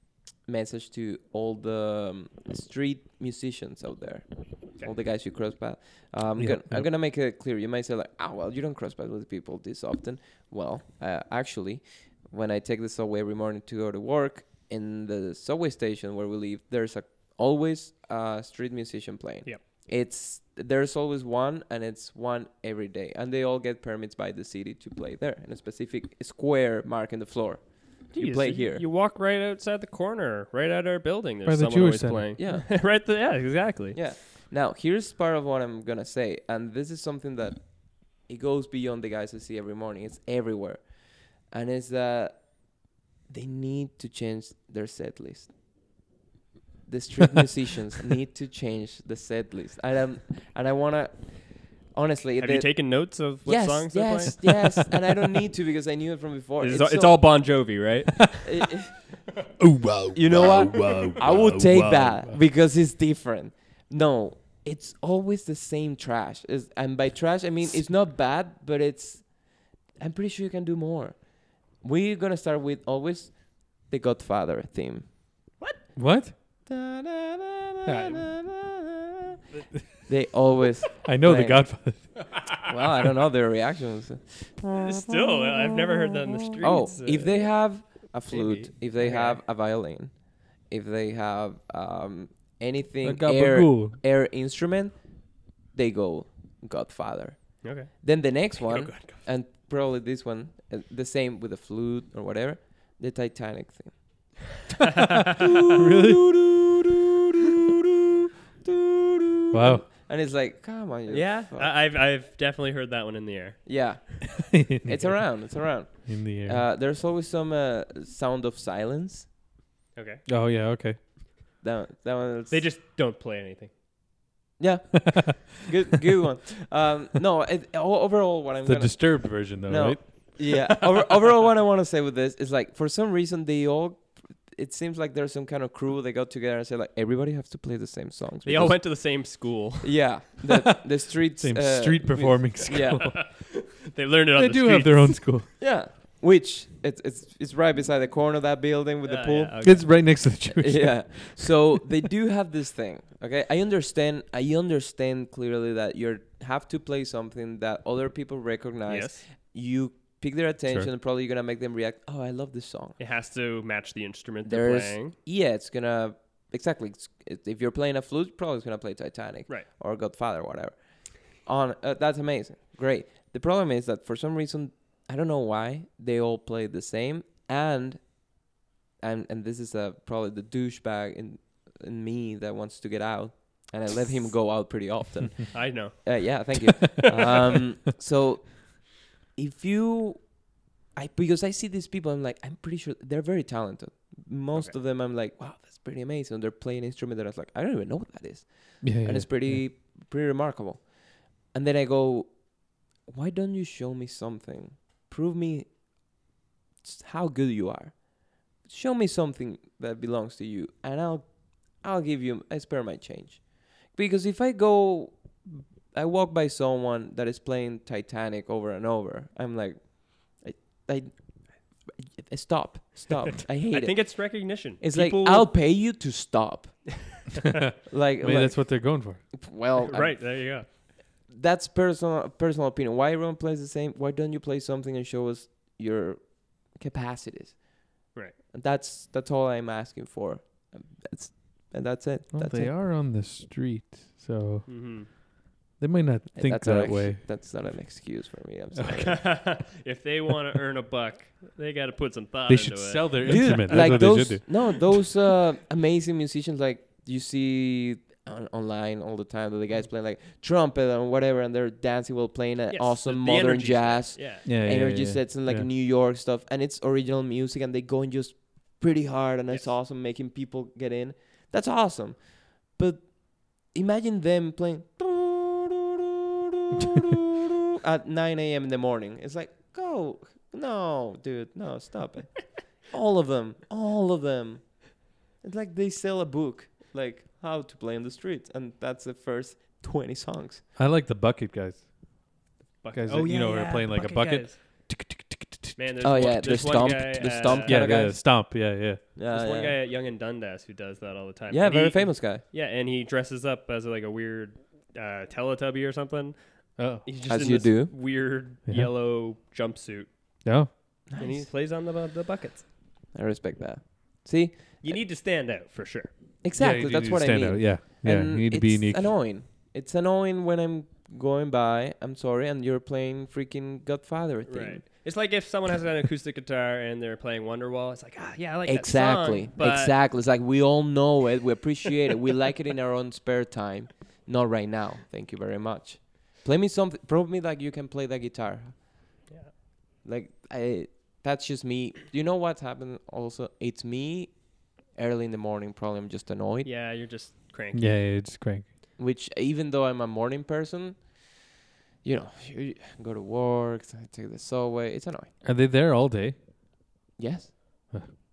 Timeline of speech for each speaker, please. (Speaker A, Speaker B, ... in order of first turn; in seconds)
Speaker A: 0.5-28.8, 32.4-33.0, 33.9-45.5, 46.9-57.2, 58.4-59.0, 60.1-75.1, 76.7-79.2, 80.0-81.7, 82.6-85.1, 86.6-104.4, 105.4-111.7, 113.7-119.3, 121.6-122.7, 124.6-139.0, 139.8-143.3, 145.6-149.8, 150.5-163.0, 164.4-178.5, 179.0-202.5, 203.1-205.7, 206.8-227.2, 227.9-230.7, 231.3-237.8, 238.5-242.7, 246.3-249.4, 253.2-276.0, 276.6-290.6, 296.0-298.6, 299.1-299.8, 301.5-302.4, 307.3-307.9, 311.1-311.5, 313.1-315.0, 316.4-324.8, 328.6-339.0, 340.0-346.7, 349.0-351.3, 352.0-355.3, 357.2-357.9
Speaker B: 6.4-6.9, 31.4-32.3, 59.6-62.4, 76.0-76.3, 77.9-78.3, 81.0-82.4, 93.0-94.0, 105.7-106.3, 109.5-109.9, 114.5-115.4, 116.0-116.6, 120.3-121.0, 128.6-130.6, 141.4-143.3, 144.4-145.5, 149.6-151.7, 198.8-199.6, 227.6-229.3, 242.3-245.1, 245.8-247.2, 252.5-254.8, 264.4-265.7, 290.8-292.3, 292.9-295.8, 297.5-299.1, 306.8-307.1, 310.4-310.7, 316.6-319.1, 347.7-348.7, 355.4-356.4
Speaker C: 28.1-34.0, 52.4-55.0, 56.6-58.7, 60.7-61.3, 79.5-79.9, 84.7-89.4, 97.6-99.2, 111.1-114.0, 119.9-120.2, 122.5-123.7, 138.4-140.1, 142.2-145.3, 149.0-149.9, 158.9-159.2, 163.0-165.2, 185.5-186.8, 223.7-225.5, 229.8-230.7, 244.7-245.1, 248.9-254.7, 262.7-264.5, 292.8-294.6, 295.8-298.0, 299.3-306.4, 306.9-310.1, 311.1-312.7, 314.8-316.1, 324.5-329.9, 346.6-347.9